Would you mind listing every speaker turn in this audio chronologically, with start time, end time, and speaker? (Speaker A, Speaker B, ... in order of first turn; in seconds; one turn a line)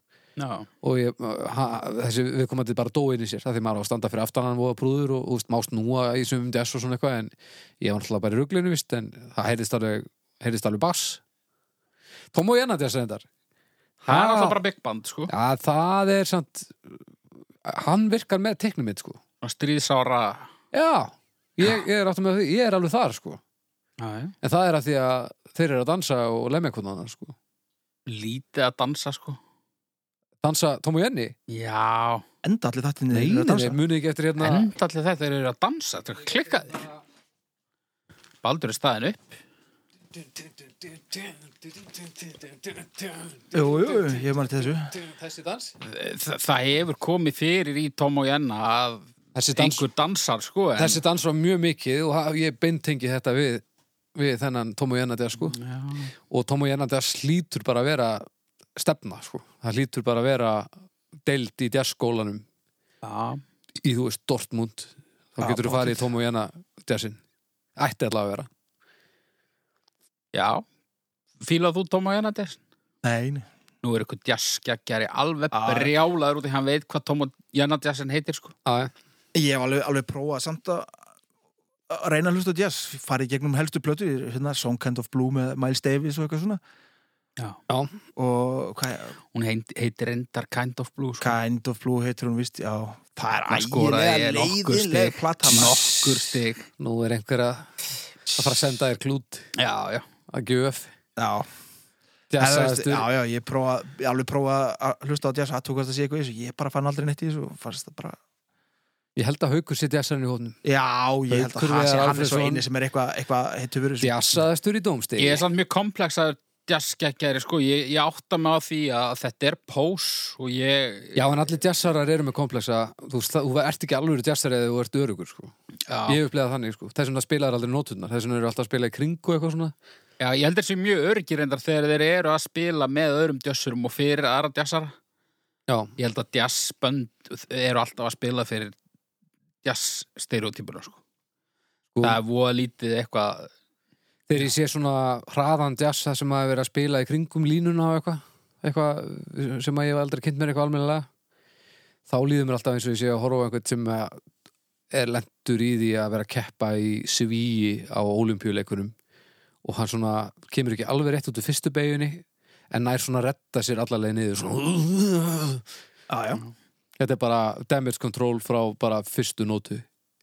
Speaker A: 0.4-0.7
Speaker B: 0.8-11.2
Speaker B: 12.3-13.2
Speaker B: 14.0-14.6
Speaker A: 14.1-15.3
Speaker B: 15.3-17.1
Speaker B: 17.6-19.2
Speaker A: 19.4-20.5
Speaker B: 20.7-23.4
Speaker A: 24.0-24.4
Speaker B: 24.4-27.4
Speaker A: 28.1-29.4
Speaker B: 30.4-31.4
Speaker A: 31.5-32.2
Speaker C: 32.4-33.8
Speaker B: 33.1-34.7
Speaker A: 34.4-36.9
Speaker A: 38.4-39.4
Speaker B: 40.1-45.8
Speaker C: 43.5-44.9
Speaker A: 45.8-51.0
Speaker B: 49.4-49.9
Speaker B: 50.8-53.6
Speaker B: 54.1-55.6
Speaker A: 55.4-56.1
Speaker B: 56.3-60.7
Speaker B: 61.2-62.5
Speaker A: 63.0-63.4
Speaker B: 63.8-67.2
Speaker C: 65.4-66.0
Speaker B: 67.8-68.5
Speaker A: 70.3-70.6
Speaker A: 71.4-72.6
Speaker C: 73.0-73.5
Speaker A: 73.8-78.5
Speaker C: 75.5-75.9
Speaker B: 78.7-78.9
Speaker C: 79.3-80.9
Speaker C: 81.9-86.6
Speaker B: 87.7-87.9
Speaker C: 88.2-89.2
Speaker A: 89.3-91.4
Speaker C: 91.2-96.3
Speaker A: 93.5-96.7
Speaker B: 96.8-97.7
Speaker C: 98.3-98.6
Speaker B: 98.4-99.5
Speaker A: 99.5-100.1
Speaker B: 100.3-100.9
Speaker C: 101.2-101.5
Speaker B: 102.3-103.1
Speaker C: 102.4-108.2
Speaker B: 109.2-110.6
Speaker C: 110.6-114.4
Speaker B: 111.3-112.6
Speaker B: 114.0-115.4
Speaker A: 115.2-121.3
Speaker B: 121.2-125.5
Speaker A: 125.9-126.2
Speaker B: 126.1-129.7
Speaker A: 130.2-134.9
Speaker B: 135.7-135.9
Speaker A: 136.0-138.8
Speaker A: 139.6-141.0
Speaker B: 141.9-142.2
Speaker A: 142.0-143.5
Speaker B: 144.3-151.1
Speaker B: 152.1-154.2
Speaker B: 154.9-158.9
Speaker B: 159.6-165.6
Speaker C: 166.1-166.4
Speaker B: 167.0-169.9